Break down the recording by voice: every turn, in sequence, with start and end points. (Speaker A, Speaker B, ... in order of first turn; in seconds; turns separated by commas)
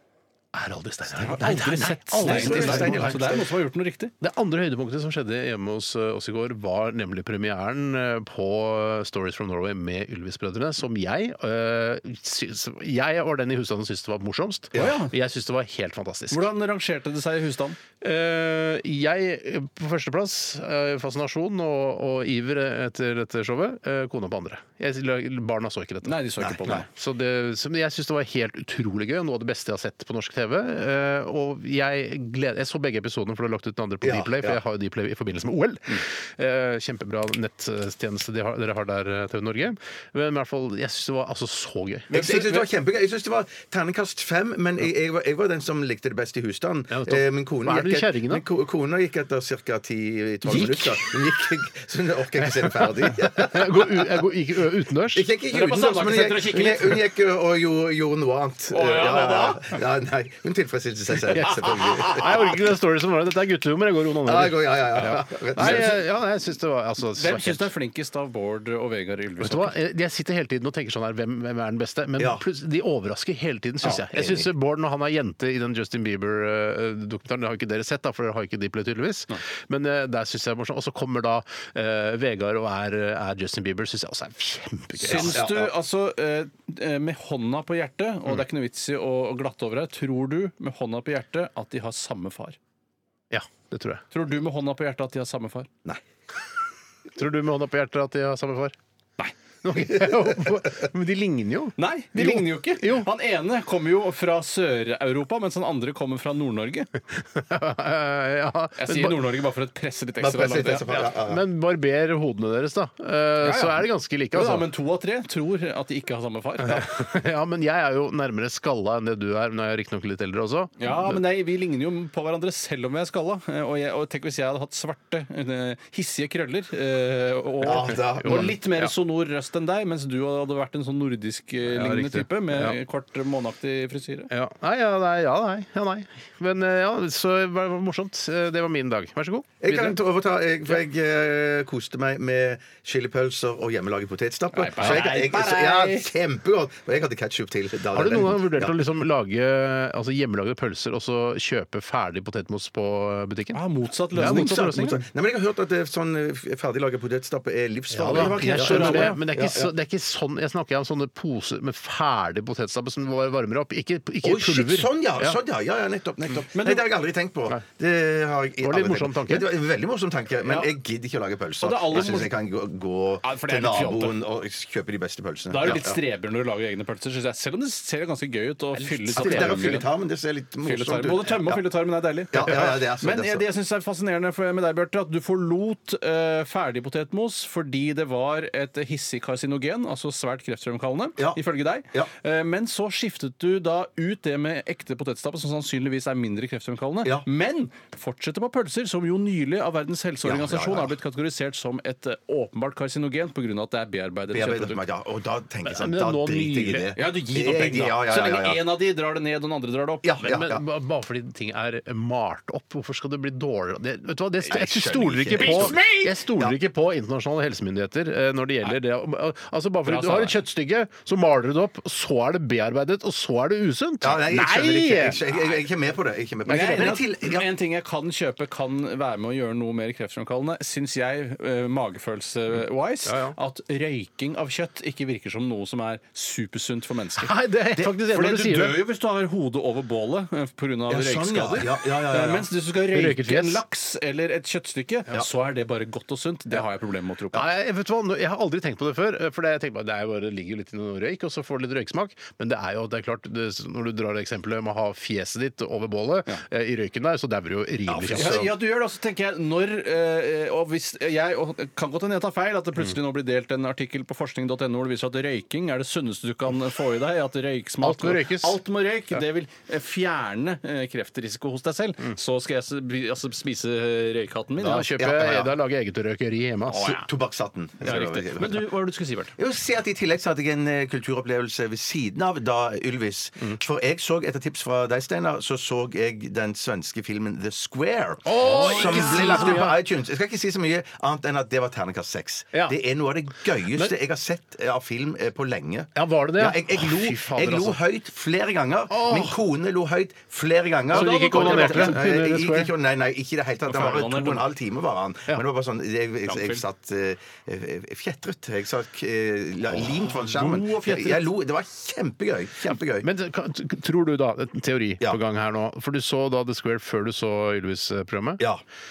Speaker A: 0.5-3.4, Speaker B: 1.2-4.1, Speaker C: 2.2-3.5, Speaker A: 4.2-16.5, Speaker B: 14.7-15.1, Speaker B: 16.3-17.8, Speaker A: 18.0-42.6, Speaker B: 26.0-26.9, Speaker C: 26.4-26.8, Speaker C: 34.0-34.6, Speaker C: 42.1-54.2, Speaker A: 46.9-48.4, Speaker A: 50.4-51.1, Speaker A: 52.4-55.3, Speaker C: 55.1-62.5, Speaker B: 55.5-57.0, Speaker B: 58.7-59.7, Speaker A: 61.3-67.7, Speaker C: 64.2-66.0, Speaker B: 67.1-69.7, Speaker A: 69.4-85.5, Speaker C: 72.2-72.4, Speaker C: 73.8-74.5, Speaker B: 85.0-92.6, Speaker C: 85.1-85.7, Speaker A: 93.3-94.0, Speaker B: 94.1-95.7, Speaker A: 97.1-98.8, Speaker A: 99.6-103.1, Speaker B: 101.8-106.9, Speaker A: 107.2-109.3, Speaker B: 108.8-110.9, Speaker C: 110.2-111.4, Speaker A: 110.9-114.7, Speaker B: 113.4-116.8, Speaker A: 116.6-121.2, Speaker B: 120.8-134.3, Speaker C: 127.6-128.6, Speaker A: 127.8-128.9, Speaker A: 131.7-132.8, Speaker A: 134.3-139.9, Speaker C: 139.6-148.8, Speaker B: 144.5-146.1, Speaker A: 144.8-145.3, Speaker A: 147.9-153.6, Speaker B: 153.5-155.0, Speaker A: 154.1-155.0, Speaker C: 154.1-159.7, Speaker A: 157.9-165.4, Speaker B: 158.1-159.2, Speaker C: 164.2-176.0, Speaker B: 166.5-166.8, Speaker A: 168.6-169.5, Speaker B: 171.6-172.3, Speaker B: 173.2-174.2, Speaker B: 175.5-179.9, Speaker A: 178.7-179.8, Speaker C: 179.1-181.6, Speaker B: 180.6-204.8, Speaker C: 182.3-183.4, Speaker C: 200.2-200.9, Speaker C: 204.3-208.6, Speaker A: 205.6-206.9, Speaker B: 206.9-210.2, Speaker C: 210.0-210.6, Speaker A: 210.2-225.2, Speaker C: 214.5-216.5, Speaker B: 215.4-216.1, Speaker B: 219.8-220.4, Speaker C: 224.0-227.5, Speaker B: 226.5-247.4, Speaker A: 233.1-233.3, Speaker A: 237.2-238.8, Speaker C: 240.9-242.5, Speaker A: 242.9-243.6, Speaker A: 247.3-258.5, Speaker C: 257.9-258.5, Speaker B: 258.1-274.9, Speaker A: 267.8-268.6, Speaker C: 274.6-275.5, Speaker A: 274.6-277.0, Speaker B: 276.7-277.0, Speaker C: 276.8-278.7, Speaker B: 277.8-279.3, Speaker C: 279.4-313.1, Speaker A: 288.2-289.8, Speaker B: 288.4-289.6, Speaker A: 295.9-297.8, Speaker A: 298.9-299.4, Speaker A: 300.9-302.7, Speaker B: 300.9-302.0, Speaker B: 303.7-304.4, Speaker B: 306.2-306.6, Speaker B: 310.2-311.2, Speaker A: 313.0-318.4